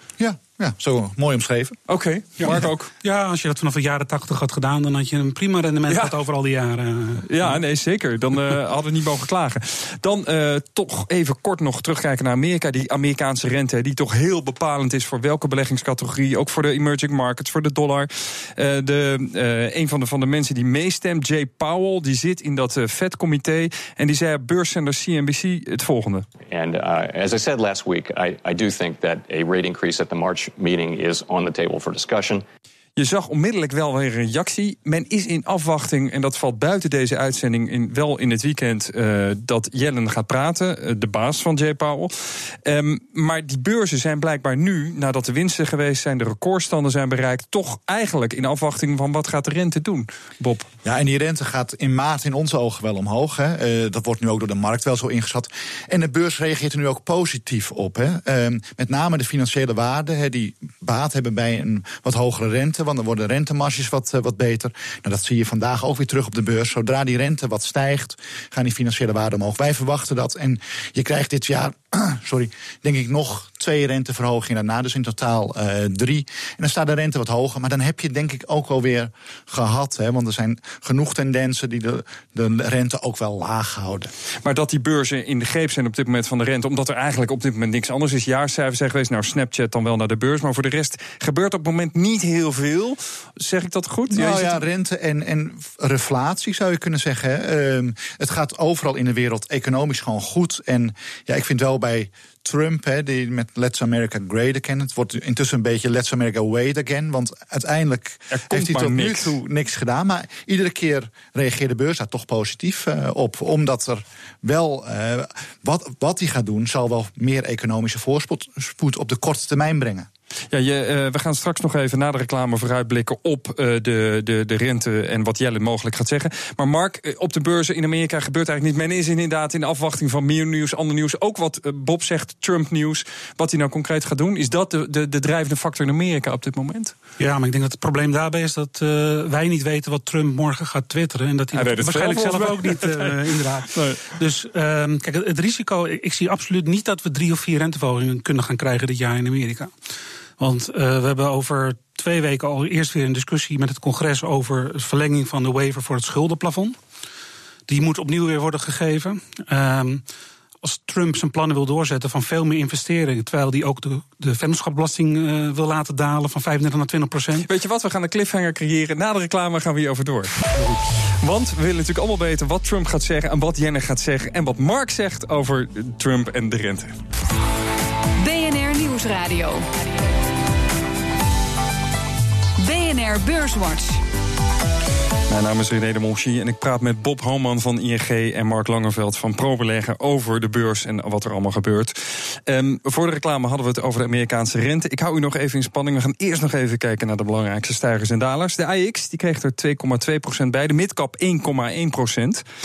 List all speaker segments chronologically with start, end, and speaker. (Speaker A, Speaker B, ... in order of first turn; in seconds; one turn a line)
Speaker A: 0.2-1.8
Speaker B: 1.9-2.9
Speaker C: 2.4-7.3
Speaker B: 7.3-26.3
Speaker D: 26.5-32.4
Speaker B: 33.0-50.7
Speaker A: 50.8-84.1
Speaker B: 84.4-94.6
Speaker A: 94.1-120.1
Speaker B: 108.3-109.4
Speaker B: 120.5-136.9
Speaker C: 137.2-149.7
Speaker B: 141.5-143.2
Speaker B: 143.7-144.1
Speaker C: 150.4-156.8
Speaker C: 157.7-160.0
Speaker C: 160.6-167.5
Speaker B: 167.4-177.0
Speaker E: 178.2-179.9
Speaker E: 182.6-184.0
Speaker B: 185.3-202.4